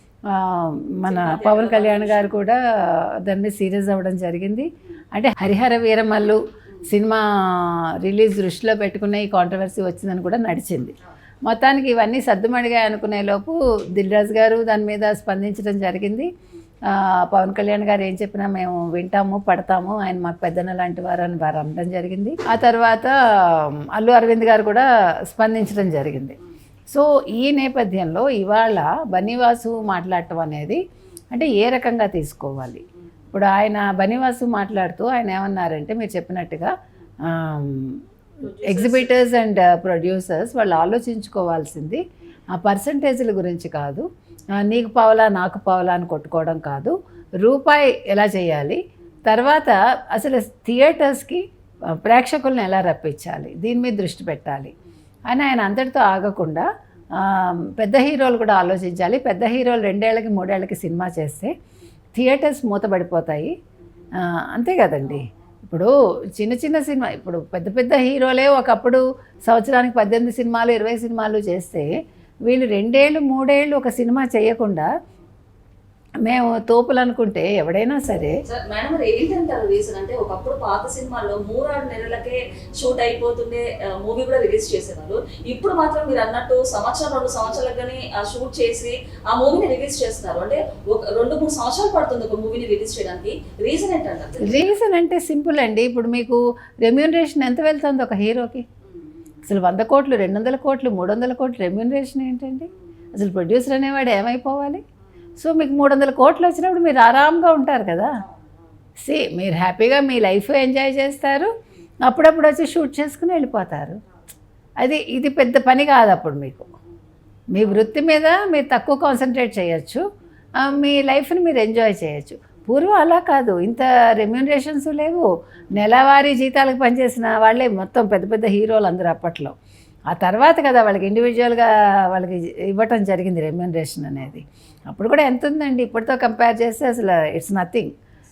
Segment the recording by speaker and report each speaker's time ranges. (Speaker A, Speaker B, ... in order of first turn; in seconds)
Speaker A: 0.3-10.9, 11.5-16.3, 16.9-26.4, 26.9-30.8, 31.3-36.7, 37.2-38.0, 38.6-42.0, 42.5-54.7, 55.3-61.5, 62.1-63.5, 64.2-71.9, 72.5-74.9, 76.2-78.4, 94.4-98.6, 99.5-104.8, 105.4-108.1, 109.0-111.5, 112.0-114.0, 114.8-116.7, 117.5-120.0, 120.6-129.5, 130.1-137.9
Speaker B: 1.1-2.4, 38.4-39.2, 78.5-94.7